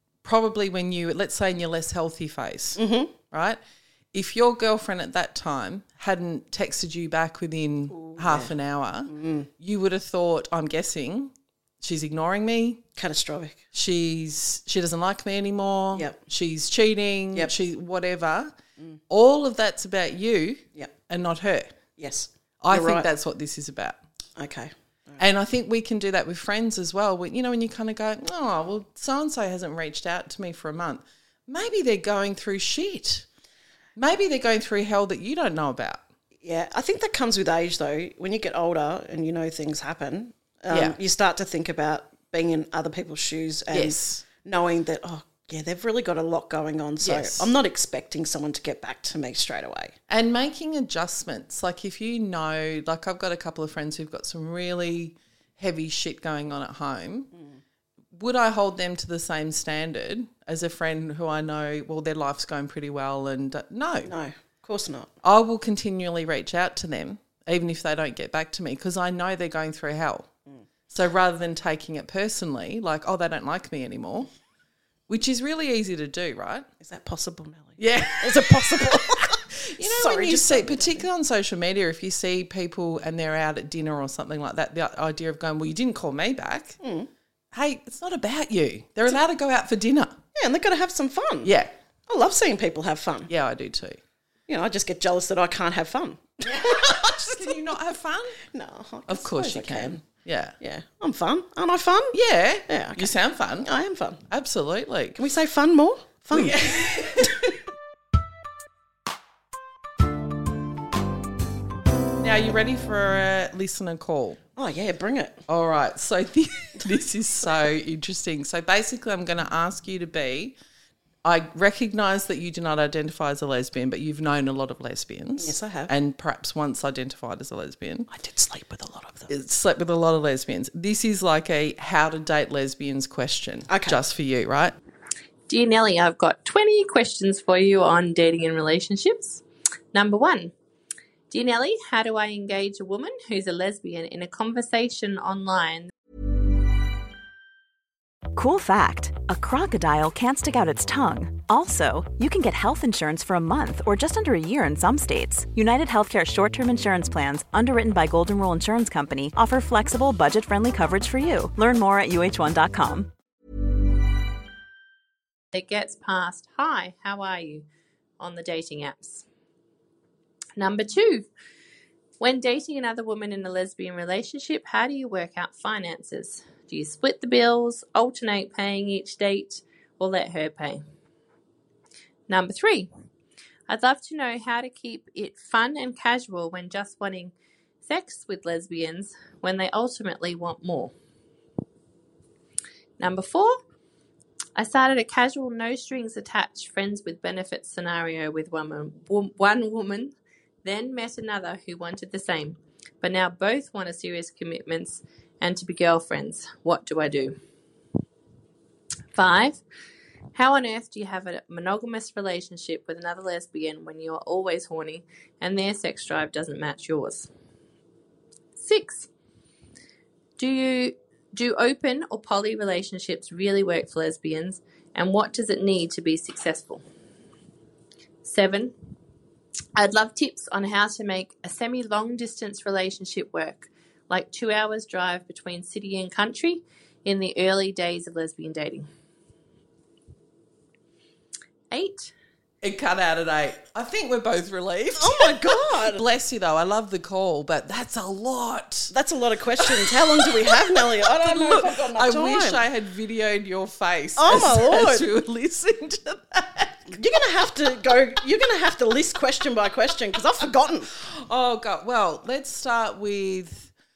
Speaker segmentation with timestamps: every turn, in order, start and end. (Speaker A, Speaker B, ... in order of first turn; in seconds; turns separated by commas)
Speaker A: 0.2-3.6, Speaker B: 2.8-3.1, Speaker A: 4.1-12.8, Speaker B: 7.9-8.5, Speaker B: 9.1-9.5, Speaker B: 12.9-13.6, Speaker A: 13.7-18.5, Speaker B: 15.9-16.2, Speaker A: 19.1-21.8, Speaker B: 22.0-23.1, Speaker A: 22.6-24.0, Speaker B: 24.4-25.2, Speaker A: 25.2-33.2, Speaker A: 34.0-36.0, Speaker B: 36.4-49.9, Speaker A: 40.7-41.0, Speaker A: 43.7-44.2, Speaker A: 47.0-47.5, Speaker A: 50.1-57.3, Speaker B: 57.3-57.6, Speaker A: 58.1-64.1, Speaker B: 64.0-65.1, Speaker A: 65.2-70.3, Speaker A: 70.9-74.3, Speaker A: 75.1-76.7, Speaker B: 76.8-81.1, Speaker A: 77.8-86.8, Speaker B: 86.8-87.1, Speaker A: 87.5-90.2, Speaker B: 90.3-91.5, Speaker A: 91.4-91.7, Speaker B: 92.1-93.3, Speaker A: 93.3-94.0, Speaker B: 94.5-97.5, Speaker A: 96.4-98.4, Speaker B: 98.4-100.0, Speaker A: 99.1-100.5, Speaker B: 100.6-102.1, Speaker A: 102.1-103.7, Speaker B: 102.7-104.2, Speaker A: 104.3-105.2, Speaker B: 105.2-107.5, Speaker A: 106.3-107.4, Speaker A: 112.2-114.4, Speaker B: 114.5-115.4, Speaker A: 115.5-120.5, Speaker A: 121.2-128.1, Speaker B: 125.4-125.9, Speaker B: 128.1-129.3, Speaker A: 129.3-134.7, Speaker B: 133.7-134.0, Speaker C: 135.5-139.4, Speaker C: 139.9-140.5, Speaker C: 141.3-145.9, Speaker D: 148.3-163.1, Speaker C: 165.5-167.7, Speaker C: 168.2-169.2, Speaker C: 170.6-171.3, Speaker C: 172.2-180.8, Speaker C: 182.3-182.9, Speaker C: 183.7-190.9, Speaker C: 193.0-193.6, Speaker C: 194.6-207.4, Speaker C: 209.1-209.6, Speaker C: 210.3-217.3, Speaker C: 218.6-219.1, Speaker C: 220.4-226.8, Speaker C: 228.2-228.7, Speaker C: 229.8-238.9, Speaker C: 241.7-242.1, Speaker A: 242.6-248.9, Speaker B: 244.9-246.0, Speaker B: 248.9-252.6, Speaker A: 249.6-257.0, Speaker B: 254.2-255.1, Speaker B: 256.9-260.9, Speaker A: 260.9-263.7